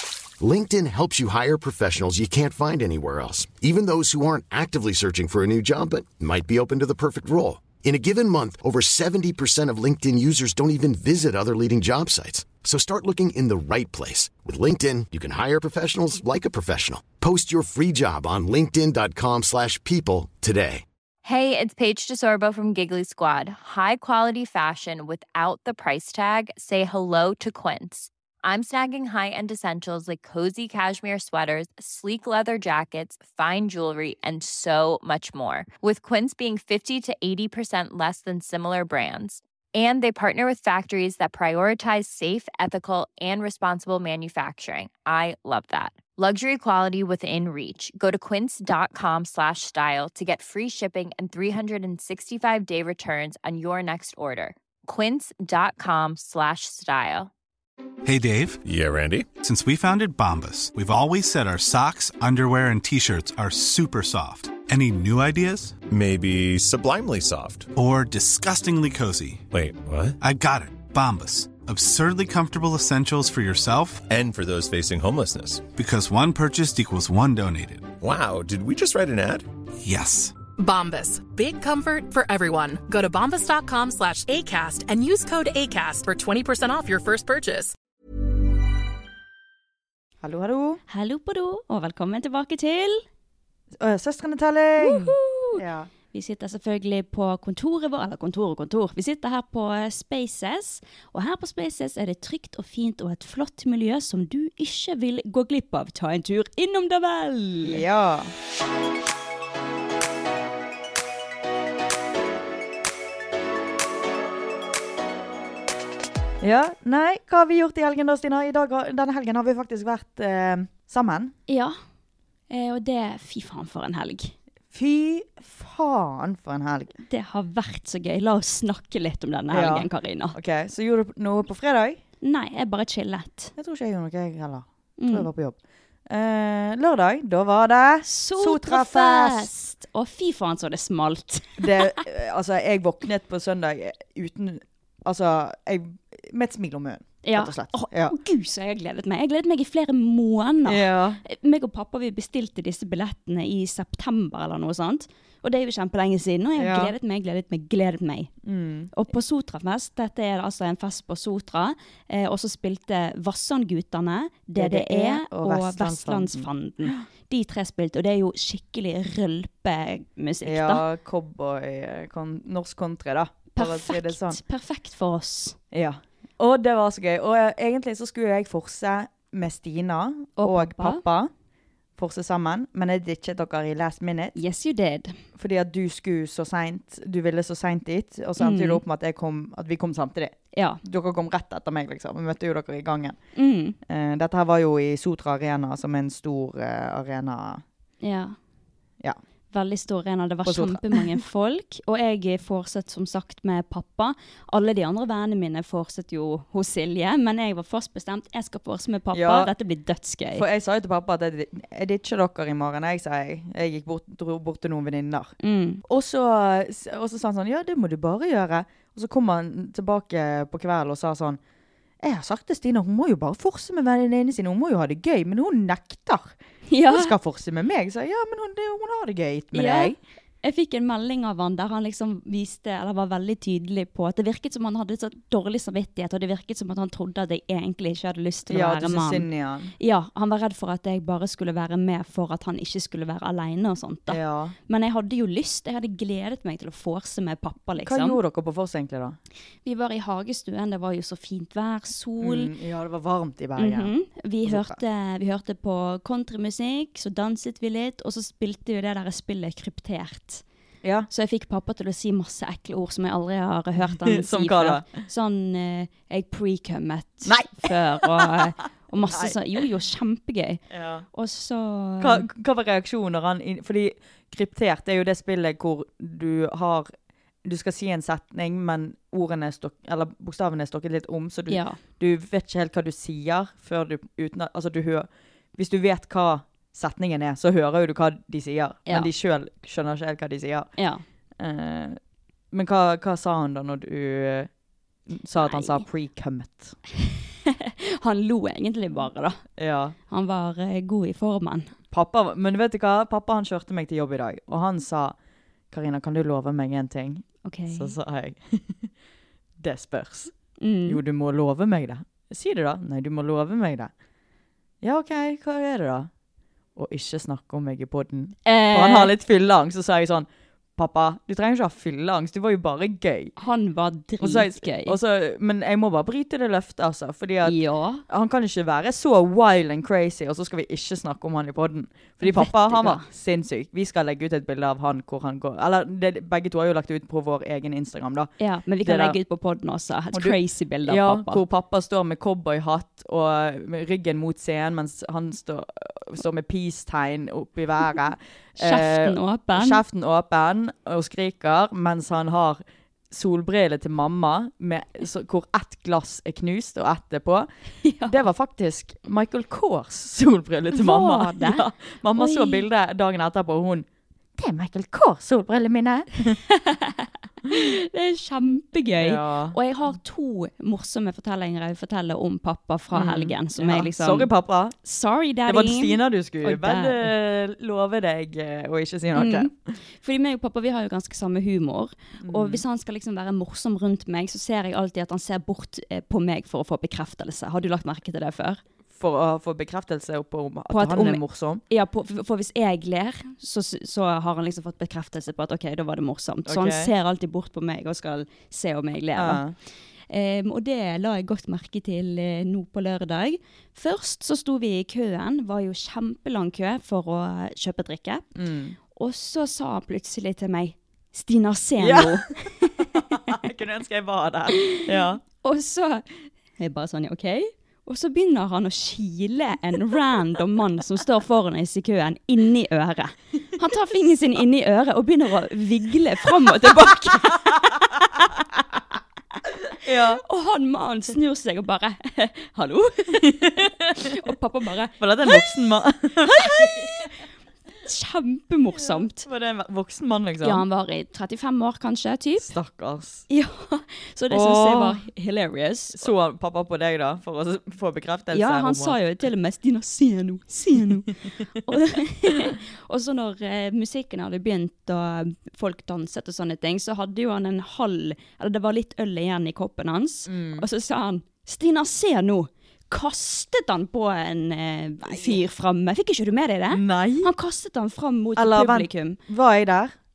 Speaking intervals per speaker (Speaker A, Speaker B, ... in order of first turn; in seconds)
Speaker A: 0.4-20.8
Speaker B: 21.2-57.3
Speaker C: 58.0-58.6, 59.4-65.8, 67.8-69.4, 70.2-74.0, 75.7-77.9, 79.8-80.4
Speaker D: 58.6-59.3, 65.9-67.7, 69.5-70.2, 74.0-75.7, 78.0-79.5
Speaker E: 80.6-87.8
Speaker F: 90.2-90.8, 93.8-95.9, 107.6-108.3, 116.4-121.3, 124.7-127.0, 129.5-132.0, 133.6-135.6, 136.1-139.5, 141.6-148.2, 150.7-151.2, 156.6-156.9, 158.4-158.9, 164.6-167.0, 170.4-174.4, 175.7-181.3, 182.0-184.4, 185.4-193.2, 193.9-197.6, 200.5-201.2, 209.1-209.5, 210.3-215.3, 215.9-221.4, 222.0-226.3, 226.9-230.0, 238.5-239.7, 244.1-244.6, 247.8-249.2, 252.2-253.9, 254.4-254.8, 260.8-261.1, 263.8-265.0, 267.2-268.5, 269.1-269.4, 270.7-271.1, 272.0-276.9, 277.4-290.7, 291.4-292.0, 292.5-294.5, 295.1-296.8, 299.6-299.9, 301.9-305.1, 305.7-308.9, 309.6-310.3, 310.9-313.9, 314.8-316.1, 316.8-323.3, 324.2-339.2, 340.1-357.5, 358.1-363.9, 364.4-366.4, 369.0-369.6, 372.9-374.8, 375.5-379.8, 382.2-382.6, 388.9-391.6, 396.5-396.9, 399.1-399.6, 408.4-408.8, 411.8-415.2, 429.7-430.2, 433.1-434.1, 435.0-437.1, 438.8-440.6, 442.4-443.3, 444.3-445.0, 445.9-449.0, 460.3-460.7, 465.1-465.4, 466.7-467.3, 468.4-469.9
Speaker G: 90.9-93.0, 94.8-107.8, 121.5-121.8, 122.5-124.3, 127.1-130.4, 132.2-133.5, 135.0-135.3, 138.1-142.0, 147.2-158.3, 158.9-170.8, 173.6-175.6, 180.4-181.0, 184.4-185.2, 188.4-188.8, 190.5-190.8, 193.3-193.8, 198.0-198.4, 199.5-210.4, 215.4-215.8, 226.7-227.1, 229.5-239.3, 239.8-248.2, 249.6-252.5, 253.6-260.4, 261.1-270.6, 271.1-272.3, 281.5-281.8, 290.8-291.0, 295.4-295.9, 297.0-299.4, 300.1-301.7, 307.4-307.9, 310.6-311.0, 318.4-319.1, 323.4-325.0, 327.4-328.0, 332.2-333.1, 338.4-341.4, 348.6-349.8, 357.8-358.2, 360.7-361.6, 362.2-362.7, 366.5-374.3, 374.8-377.1, 379.1-388.6, 390.7-399.4, 400.1-408.3, 408.9-413.2, 415.4-416.1, 416.6-428.5, 430.2-435.7, 436.2-437.2, 437.9-439.2, 440.4-442.5, 443.3-446.1, 448.3-469.2